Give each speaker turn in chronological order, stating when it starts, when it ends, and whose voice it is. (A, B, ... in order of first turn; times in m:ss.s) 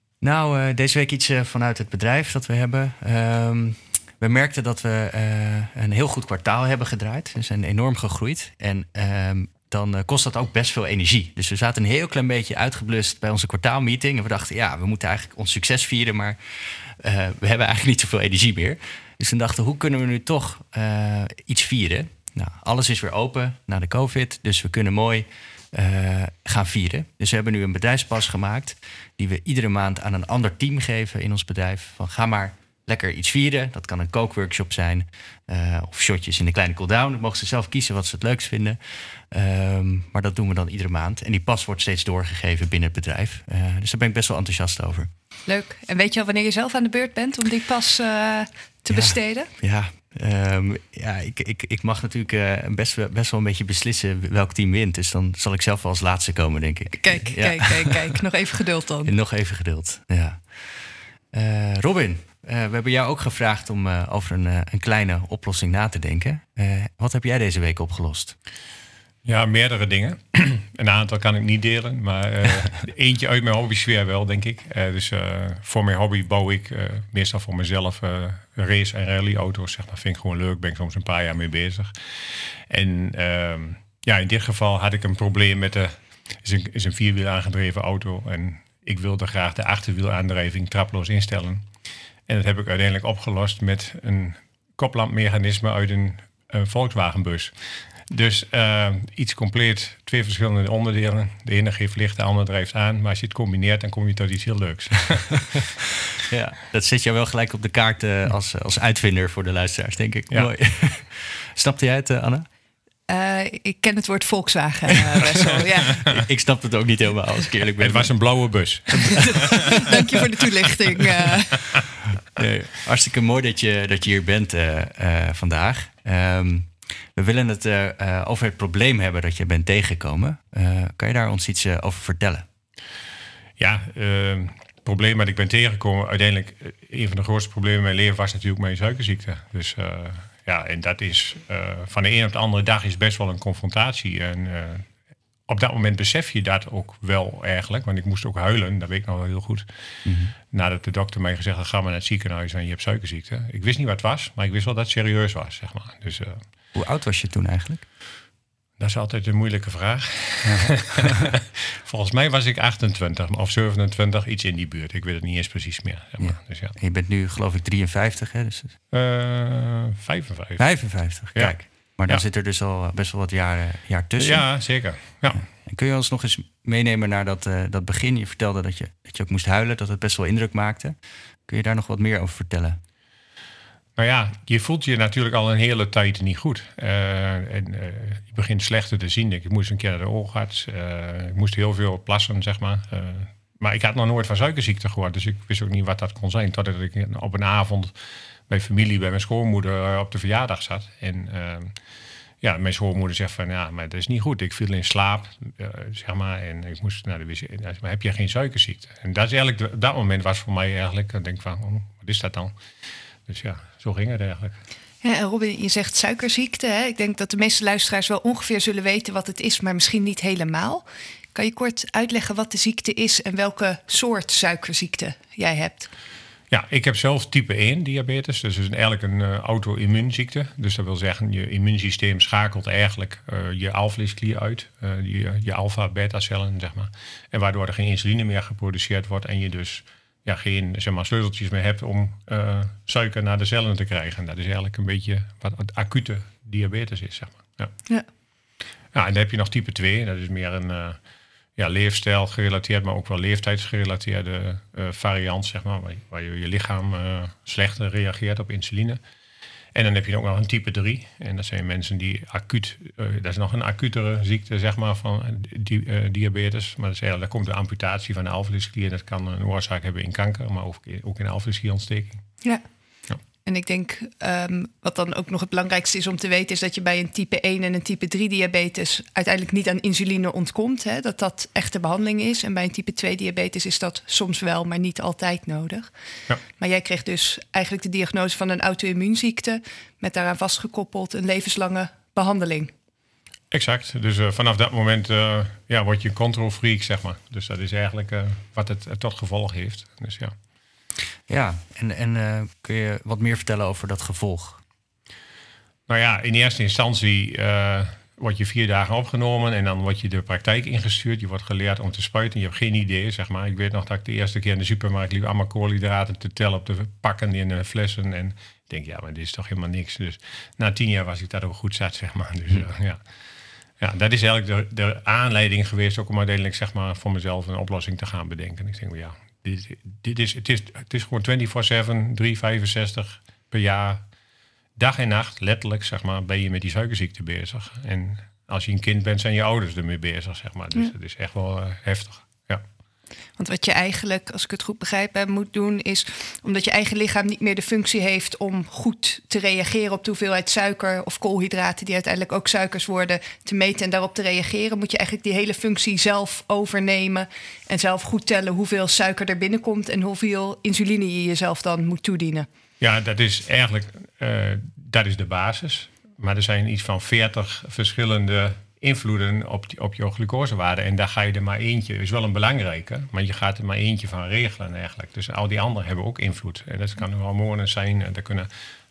0:00.2-0:45.1 A
0:45.5-0:49.5 B
0:48.9-0:58.2 A
0:57.0-0:59.1 B
0:59.0-1:08.4 A
1:09.2-1:31.6 C
1:32.3-1:37.5 C
1:38.1-1:45.7 C
1:46.2-1:52.5 A
1:53.1-1:56.0 B
1:55.4-1:58.1 A
1:57.8-1:59.8 C
1:58.9-2:00.0 A
1:59.3-2:01.8 B
2:01.8-2:12.4 A
2:13.6-2:24.9 C
2:25.5-2:29.7 C
2:30.0-2:30.3 A
2:30.4-2:36.4 C
2:36.7-2:37.8 A
2:38.8-2:46.7 C
2:40.4-2:41.1 A
2:46.2-2:48.7 A
2:48.9-2:50.6 C
2:50.6-2:54.4 A
2:54.2-2:55.4 C
2:55.3-3:01.0 A
3:01.5-3:02.8 A
3:04.0-3:18.0 C
3:18.5-3:21.7 C
3:22.4-3:32.5 C
3:33.2-3:34.6 C
3:35.0-3:45.9 B
3:46.5-4:07.7 C
4:08.9-4:11.0 C
4:11.6-4:19.0 C
4:19.7-4:32.2 C
4:33.4-4:45.9 B
4:46.6-4:52.7 B
4:53.5-5:00.3 C
5:01.3-5:04.6 A
5:05.9-5:23.0 C
5:23.8-5:34.0 C
5:34.8-5:42.6 C
5:43.4-6:02.5 B
6:02.8-6:18.5 C